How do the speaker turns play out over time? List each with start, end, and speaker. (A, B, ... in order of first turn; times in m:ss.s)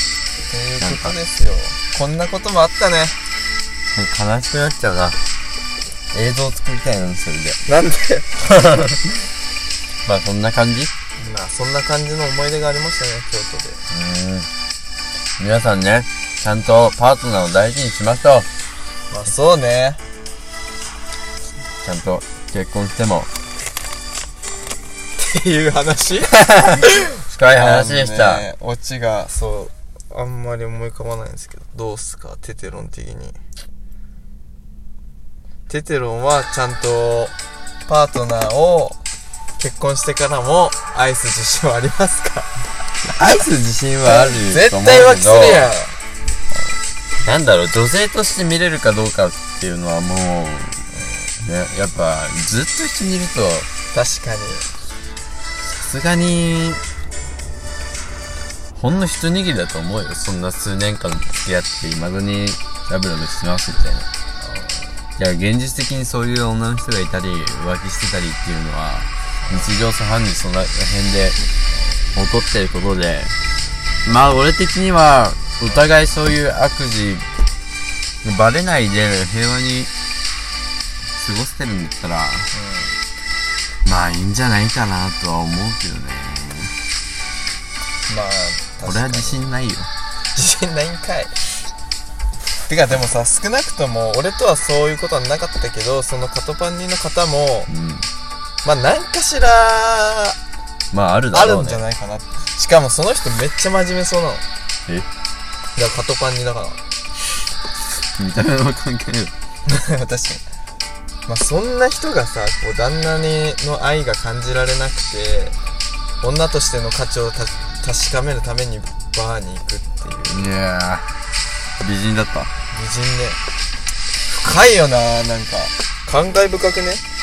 0:00.5-0:03.2 A
0:00.8-0:01.1 B
0:03.9-0:05.2 B
0:06.1-0:07.6 B
0:07.6-0:08.4 A
0:08.6-0:08.9 B
0:10.0-0:10.9 B
0:11.2-0:13.8 A
0:13.9-0:14.5 B
0:15.4-0:18.5 B
0:19.1-0:20.0 A
0:21.8-0:23.3 B
0:25.2-0:33.4 A
0:26.3-0:28.4 B
0:35.7-0:39.0 A
0:39.6-0:42.5 A
0:43.1-0:45.7 B
0:44.0-0:46.0 A
0:47.2-0:50.8 B
0:50.9-0:51.3 A
0:51.4-0:53.7 B
0:53.9-0:54.7 A
0:55.6-0:56.8 B
0:58.7-1:04.1 B
1:04.4-1:04.9 A
1:05.2-1:11.4 B
1:12.1-1:13.4 B
1:14.0-1:17.3 B
1:18.2-1:19.9 B
1:21.2-1:22.5 B
1:22.5-1:23.0 A
1:23.8-1:26.8 B
1:28.1-1:29.4 A
1:28.8-1:29.9 B
1:30.3-1:31.4 A
1:32.7-1:37.7 A
1:37.7-1:38.1 B
1:38.6-1:40.4 A
1:40.9-1:41.8 B
1:41.3-1:44.4 A
1:45.8-1:46.8 A
1:48.1-1:49.3 B
1:49.7-1:50.4 A
1:51.3-1:55.5 A
1:56.2-2:00.4 A
2:00.3-2:01.0 B
2:01.8-2:02.5 B
2:02.7-2:03.4 A
2:04.3-2:07.0 A